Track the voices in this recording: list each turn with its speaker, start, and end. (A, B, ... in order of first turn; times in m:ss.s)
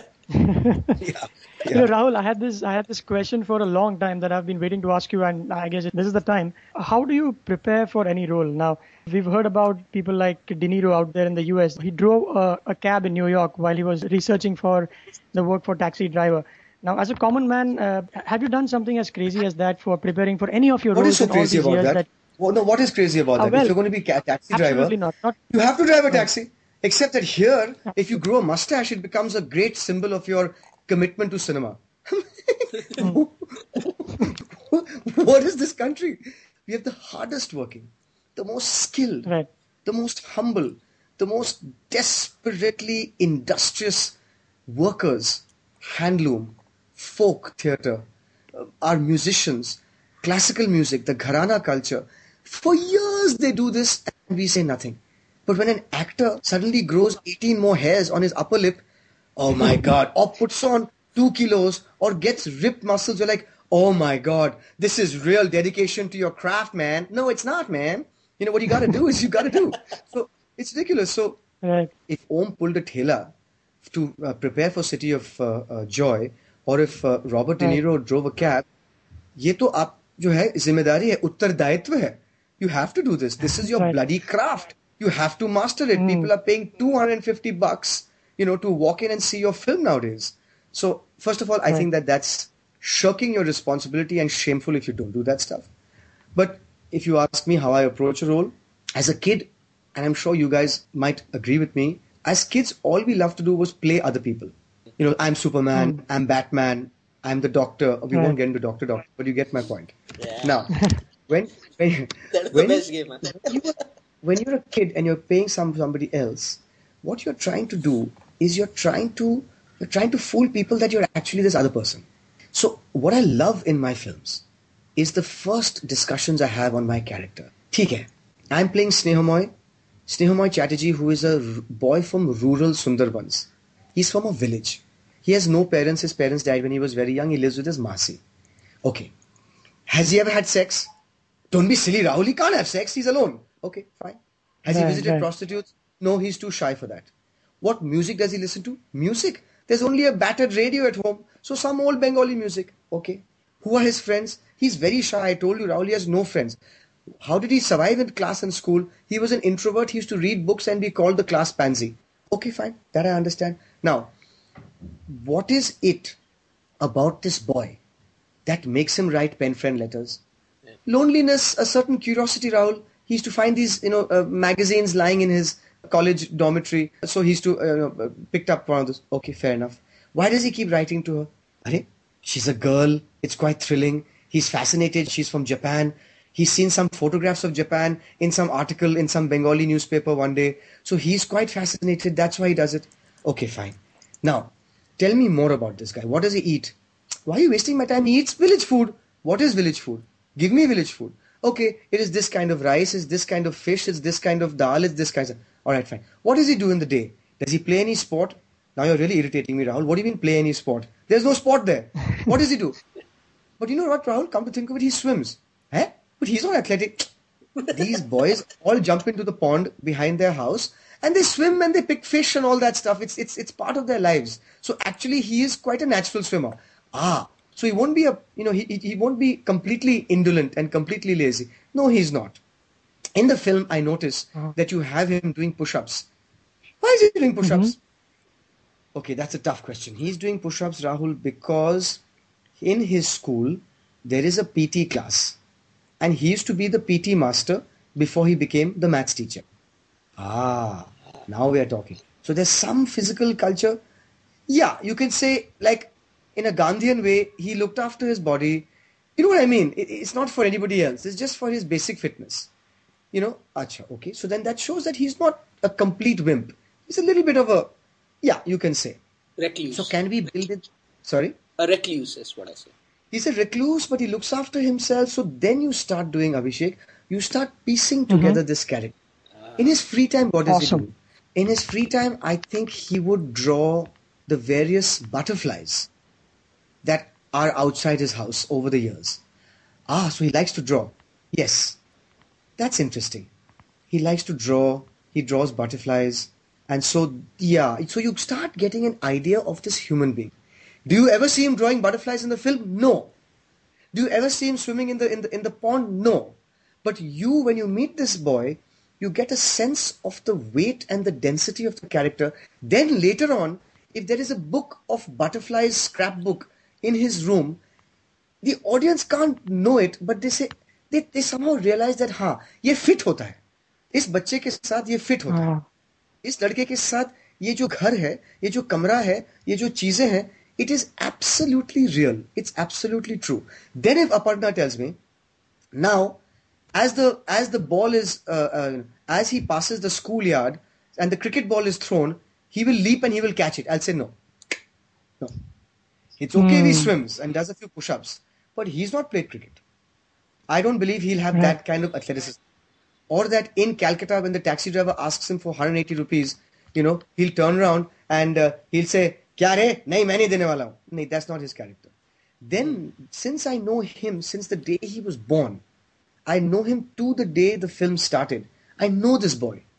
0:00.3-0:01.0 A
0:01.0-0:01.9 B
0:01.7-0:22.0 A
0:20.9-0:24.9 B
0:23.4-0:23.7 A
0:24.5-0:25.4 A
0:25.5-0:39.3 B
0:39.8-0:44.1 B
0:44.7-0:58.8 B
0:59.4-1:11.4 B
1:11.6-1:11.9 A
1:12.1-1:13.3 B
1:13.8-1:18.7 B
1:19.4-1:35.7 B
1:23.7-1:24.0 A
1:25.9-1:26.3 A
1:36.3-2:04.4 B
1:50.2-1:50.6 C
1:52.3-1:53.8 C
2:05.0-2:09.5 B
2:10.1-2:18.2 B
2:18.8-2:19.1 B
2:19.9-2:20.9 B
2:21.5-2:27.1 B
2:24.7-2:25.3 A
2:27.6-2:36.6 B
2:37.2-2:44.1 B
2:45.1-2:46.2 B
2:46.8-2:47.8 B
2:48.4-2:50.2 B
2:50.8-3:16.7 B
3:17.2-3:32.8 B
3:33.6-3:37.1 B
3:37.7-3:52.4 B
3:53.2-3:56.1 B
3:56.8-3:57.8 B
3:57.4-3:57.7 A
3:58.9-4:02.0 B
4:02.6-4:05.4 B
4:06.0-4:09.4 B
4:10.2-4:13.8 B
4:14.5-4:22.5 B
4:23.1-4:27.7 B
4:28.2-4:29.0 B
4:29.4-4:29.9 C
4:29.7-4:31.4 B
4:31.6-4:32.7 C
4:33.1-4:38.9 B
4:38.1-4:38.4 A
4:39.6-4:45.9 B
4:40.5-4:40.8 A
4:46.8-4:49.2 B
4:49.9-4:51.8 B
4:52.6-4:53.3 B
4:53.9-5:00.3 B
5:00.8-5:03.1 B
5:03.9-5:17.6 B
5:18.4-5:23.4 B
5:23.9-5:25.5 B
5:25.3-5:25.6 A
5:26.2-5:35.0 B
5:35.7-5:36.2 B
5:36.7-5:44.2 B
5:46.2-5:49.6 B
5:46.4-5:46.9 A
5:50.5-5:52.4 B
5:53.1-6:01.9 B
6:02.4-6:05.6 B
6:06.3-6:09.6 B